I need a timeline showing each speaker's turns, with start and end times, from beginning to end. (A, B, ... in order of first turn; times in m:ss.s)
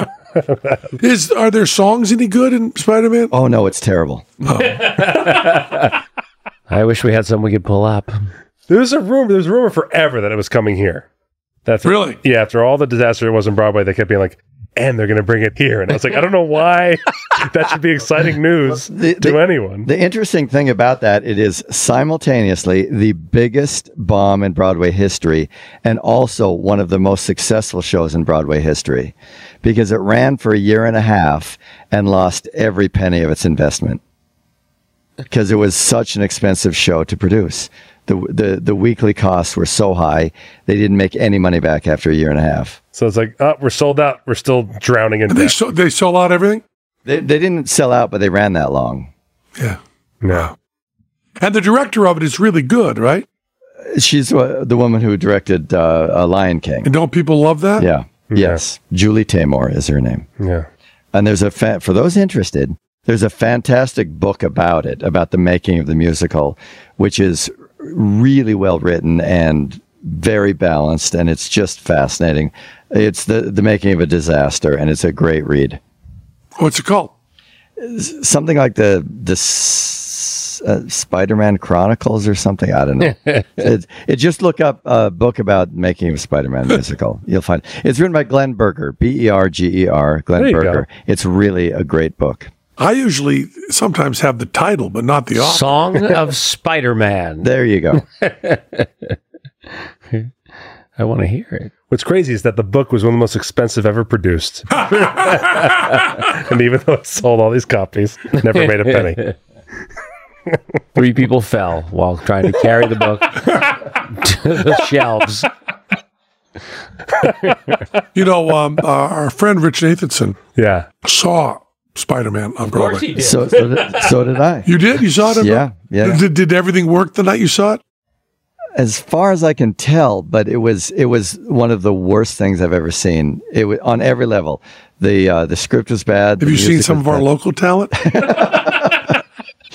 0:00.4-0:00.8 A
0:01.0-0:03.3 B
0:03.3-0:04.4 C
0:04.5-0:05.3 B
0:04.6-0:05.9 D
0:06.7-0:08.2 D
0:08.7-0:11.1 A
0:11.7-0:19.9 A
0:11.8-0:12.2 B
0:18.7-0:34.0 C
0:35.3-0:42.8 C
0:42.9-0:45.6 A
0:45.3-0:46.6 B
0:47.1-0:49.1 C
0:50.2-0:50.5 A
0:51.4-0:53.3 B
0:53.9-0:56.9 C
0:56.8-0:57.9 B
0:57.8-1:00.3 C
0:58.3-0:58.6 A
1:00.4-1:00.7 A
1:01.1-1:15.8 C
1:16.6-1:17.1 B
1:17.8-1:32.5 C
1:30.4-1:30.8 A
1:32.8-1:35.8 B
1:35.4-1:37.5 D
1:37.4-1:38.0 C
1:38.2-1:39.2 D
1:41.0-1:41.7 D
1:41.9-1:49.3 A
1:45.1-1:45.8 D
1:48.6-1:49.3 D
1:51.0-1:55.5 D
1:57.2-1:57.8 D
1:58.1-2:00.4 B
2:00.6-2:00.9 A
2:01.0-2:03.2 B
2:02.7-2:04.2 D
2:03.2-2:04.7 C
2:04.7-2:07.8 B
2:05.2-2:06.2 C
2:08.8-2:17.3 C
2:16.4-2:18.2 B
2:18.0-2:19.1 C